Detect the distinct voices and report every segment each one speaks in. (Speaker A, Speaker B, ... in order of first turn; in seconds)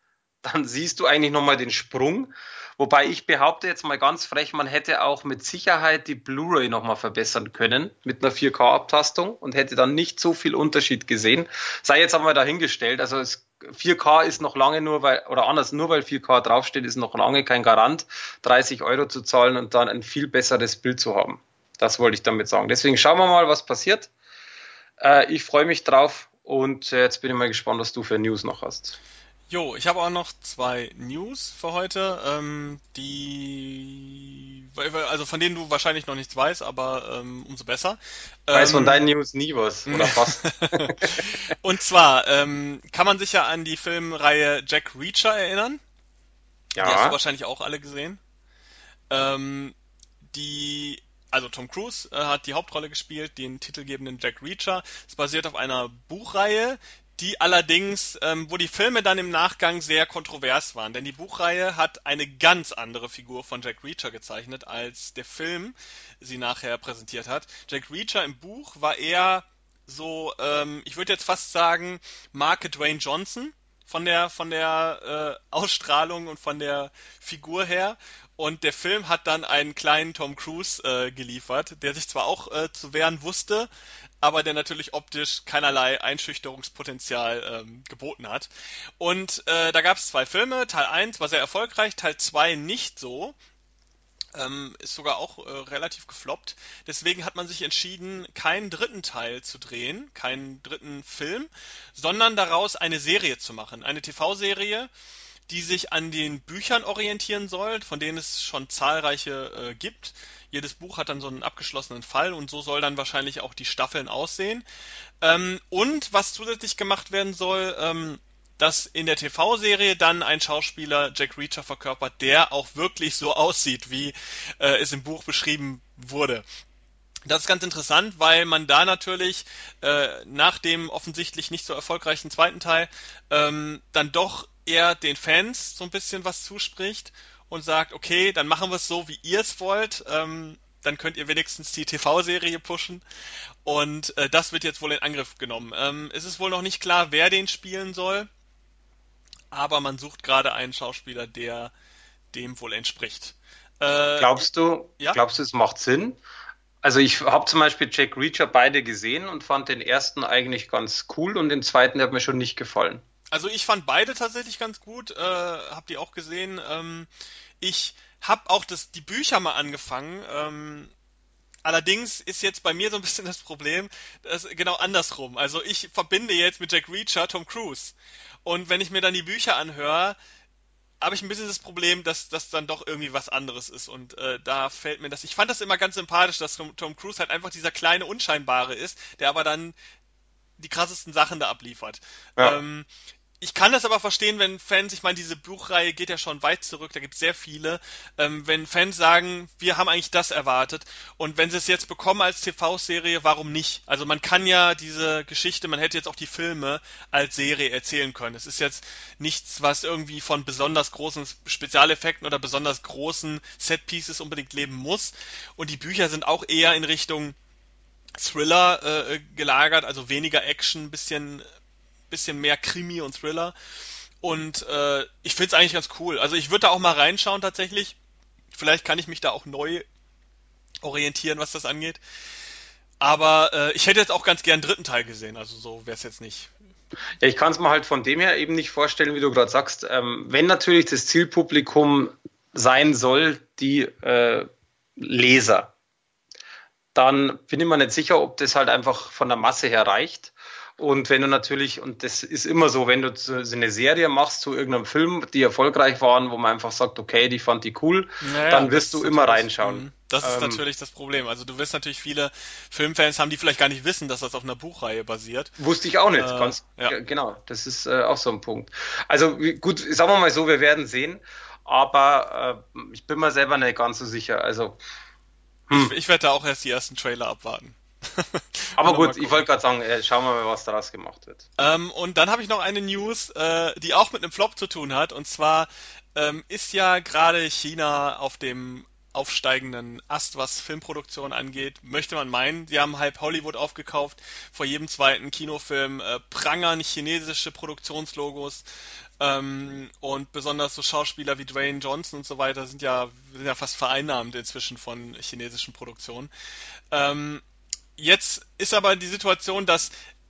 Speaker A: 0.4-24.1, 25.0-29.0, 38.5-41.2, 46.8-47.2, 154.2-156.2, 156.8-163.0, 237.2-245.7, 246.9-260.6, 265.6-274.8, 275.7-275.9, 278.8-281.4
Speaker B: 29.5-39.0, 39.9-45.8, 46.8-48.2, 49.1-49.8, 50.3-83.7, 84.2-93.3, 94.3-104.9, 105.5-114.7, 115.2-126.4, 127.3-143.0, 143.7-148.3, 149.5-151.7, 152.3-154.4, 163.3-167.1, 167.6-170.9, 171.6-180.2, 181.0-189.8, 190.6-192.9, 193.4-217.4, 218.2-221.4, 222.1-223.5, 224.2-228.0, 228.5-229.9, 230.8-232.0, 233.0-236.5, 258.2-265.5, 266.2-267.0, 275.7-279.5, 281.6-298.6, 299.2-306.3, 306.9-307.4, 308.0-309.9